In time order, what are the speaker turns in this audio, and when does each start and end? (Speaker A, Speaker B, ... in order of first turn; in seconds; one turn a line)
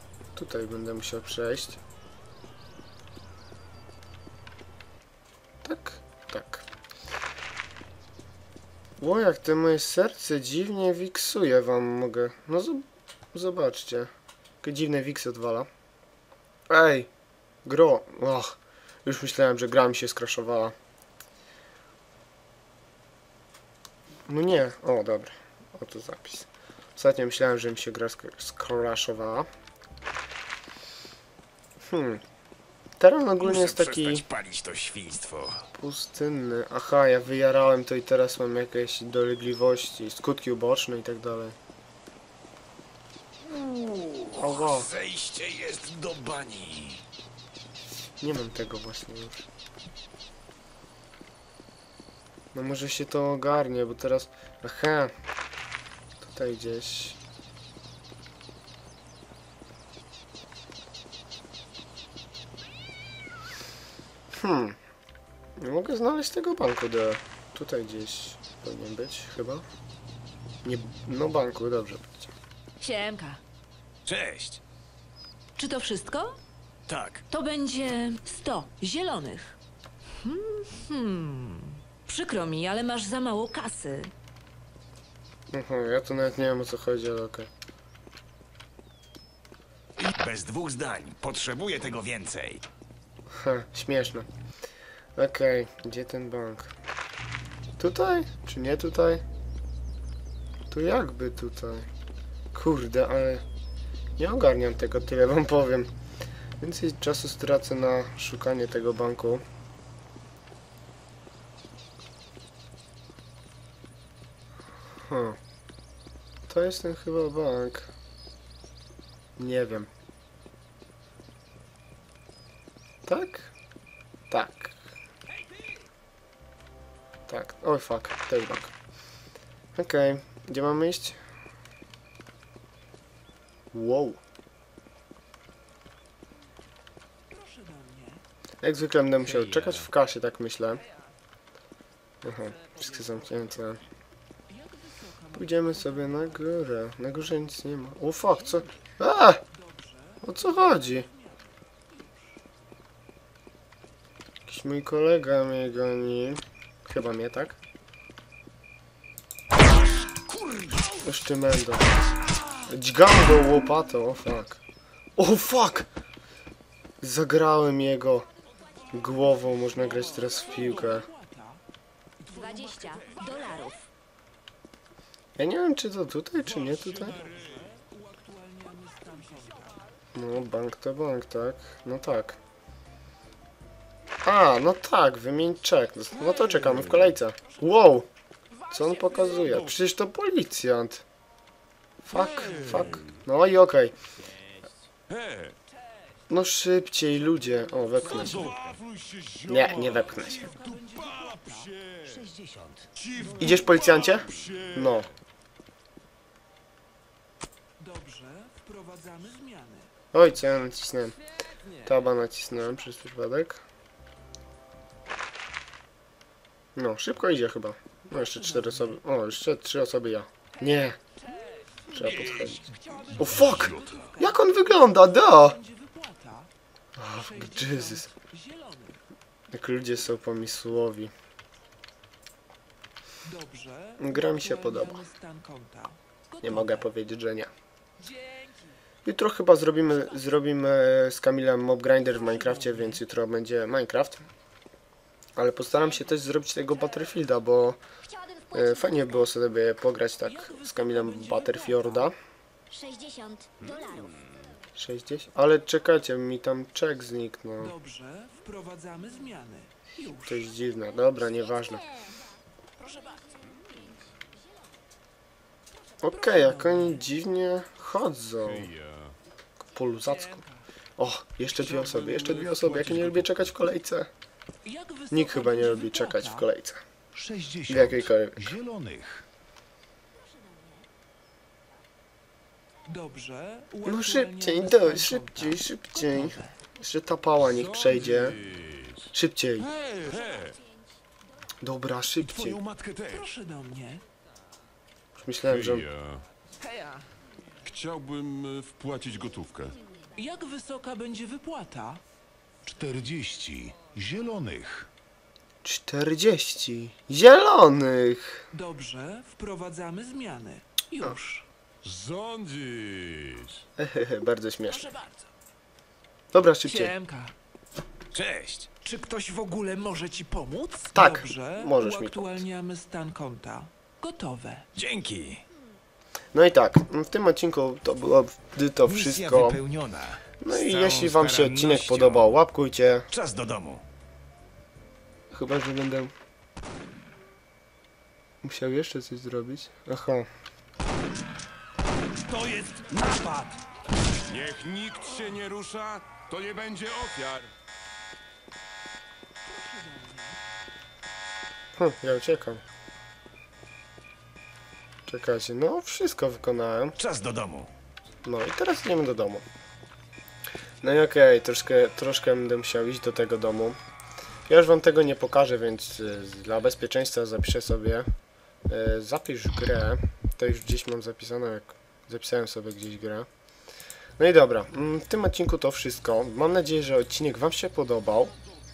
Speaker A: 0.3-1.8
Speaker A: 5.6-6.6
Speaker A: 9.0-14.1
Speaker A: 14.6-15.7
Speaker A: 16.7-17.1
Speaker A: 17.6-20.7
Speaker A: 24.3-29.5
Speaker A: 31.9-32.2
Speaker A: 33.0-34.2
Speaker B: 33.4-35.6
Speaker A: 35.7-41.5
Speaker B: 43.5-47.0
Speaker A: 44.4-44.9
Speaker A: 48.2-49.5
Speaker A: 52.5-55.1
Speaker A: 56.2-57.2
Speaker A: 64.4-64.8
Speaker A: 65.6-69.7
Speaker A: 70.6-72.3
Speaker C: 72.8-73.4
Speaker B: 74.0-74.6
Speaker D: 75.6-76.2
Speaker B: 76.9-77.2
Speaker D: 77.3-79.5
Speaker C: 77.3-78.1
Speaker D: 80.9-81.4
Speaker D: 82.1-83.9
Speaker C: 82.1-84.1
Speaker A: 85.5-87.5
Speaker B: 90.0-92.6
Speaker A: 93.3-94.3
Speaker A: 95.2-96.7
Speaker A: 97.8-99.2
Speaker A: 100.7-101.9
Speaker A: 102.5-103.4
Speaker A: 104.2-105.9
Speaker A: 106.6-109.4
Speaker A: 115.1-115.4
Speaker A: 116.5-117.9
Speaker A: 119.4-119.9
Speaker A: 123.0-123.5
Speaker A: 124.3-124.8
Speaker A: 127.3-128.7
Speaker A: 129.7-131.2
Speaker A: 133.7-134.2
Speaker D: 137.3-138.2
Speaker A: 138.6-140.8
Speaker B: 139.2-139.9
Speaker A: 142.2-143.8
Speaker D: 144.5-146.3
Speaker A: 145.3-149.4
Speaker D: 149.5-151.4
Speaker A: 150.2-151.1
Speaker D: 151.9-152.2
Speaker A: 154.4-157.6
Speaker B: 160.3-160.8
Speaker A: 161.0-161.9
Speaker A: 162.7-164.6
Speaker A: 165.2-165.9
Speaker A: 167.0-168.2
Speaker A: 168.9-171.1
Speaker D: 170.2-171.6
Speaker D: 172.3-173.7
Speaker E: 172.5-173.6
Speaker A: 175.4-177.2
Speaker D: 177.1-179.8
Speaker A: 180.1-182.4
Speaker A: 184.2-188.1
Speaker A: 188.7-191.0
Speaker D: 188.8-189.7
Speaker A: 192.0-193.9
Speaker D: 192.5-192.8
Speaker F: 195.1-195.5
Speaker A: 196.3-198.5
Speaker F: 198.1-202.2
Speaker B: 198.4-198.8
Speaker A: 199.4-200.4
Speaker D: 200.2-201.8
Speaker B: 202.1-202.9
Speaker F: 203.0-204.7
Speaker A: 203.3-205.1
Speaker D: 207.8-209.9
Speaker A: 210.1-211.1
Speaker A: 211.8-213.6
Speaker A: 216.8-221.0
Speaker D: 218.2-219.0
Speaker D: 221.2-226.5
Speaker A: 221.9-222.6
Speaker B: 222.0-222.6
Speaker A: 223.1-225.6
Speaker A: 227.0-228.1
Speaker D: 227.1-229.0
Speaker A: 229.5-231.1
Speaker D: 233.2-236.9
Speaker A: 234.0-235.0
Speaker A: 236.4-237.5
Speaker D: 238.0-238.7
Speaker A: 239.0-244.2
Speaker D: 242.1-243.0
Speaker A: 245.4-247.8
Speaker C: 248.1-248.5
Speaker A: 248.5-252.1
Speaker D: 250.3-252.1
Speaker A: 254.8-257.8
Speaker D: 257.6-260.4
Speaker A: 260.2-261.9
Speaker D: 262.8-263.4
Speaker A: 266.0-268.7
Speaker D: 266.1-267.0
Speaker F: 268.8-269.1
Speaker A: 269.6-270.4
Speaker D: 270.1-270.6
Speaker A: 271.0-274.1
Speaker F: 272.6-273.1
Speaker D: 274.6-276.5
Speaker A: 275.1-276.8
Speaker E: 277.1-279.2
Speaker A: 277.6-278.6
Speaker D: 282.9-286.5
Speaker A: 283.8-288.4
Speaker A: 289.1-289.7
Speaker F: 289.9-290.5
Speaker A: 291.6-292.6
Speaker F: 292.4-293.2
Speaker D: 293.1-294.0
Speaker A: 295.1-295.9
Speaker D: 296.6-297.1
Speaker F: 297.6-299.8
Speaker D: 300.1-302.0
Speaker E: 302.6-304.9
Speaker B: 303.2-303.6
Speaker B: 304.5-304.8
Speaker A: 305.6-308.4
Speaker D: 308.5-311.4
Speaker F: 311.9-313.2
Speaker A: 313.8-314.9
Speaker D: 314.7-315.2
Speaker A: 316.3-316.9
Speaker D: 316.6-317.3
Speaker B: 318.1-318.7
Speaker D: 318.8-324.6
Speaker A: 320.9-322.4
Speaker B: 324.7-325.4
Speaker A: 326.3-329.6
Speaker B: 328.8-332.4
Speaker A: 330.4-333.1
Speaker B: 333.1-333.8
Speaker A: 335.3-336.1
Speaker A: 338.4-340.3
Speaker B: 342.3-343.5
Speaker F: 344.3-347.5
Speaker D: 349.4-350.4
Speaker A: 351.8-352.6
Speaker A: 355.1-357.0
Speaker B: 356.9-357.7
Speaker A: 358.2-359.4
Speaker A: 360.8-363.8
Speaker A: 364.5-368.1
Speaker A: 368.7-373.3
Speaker A: 374.2-378.3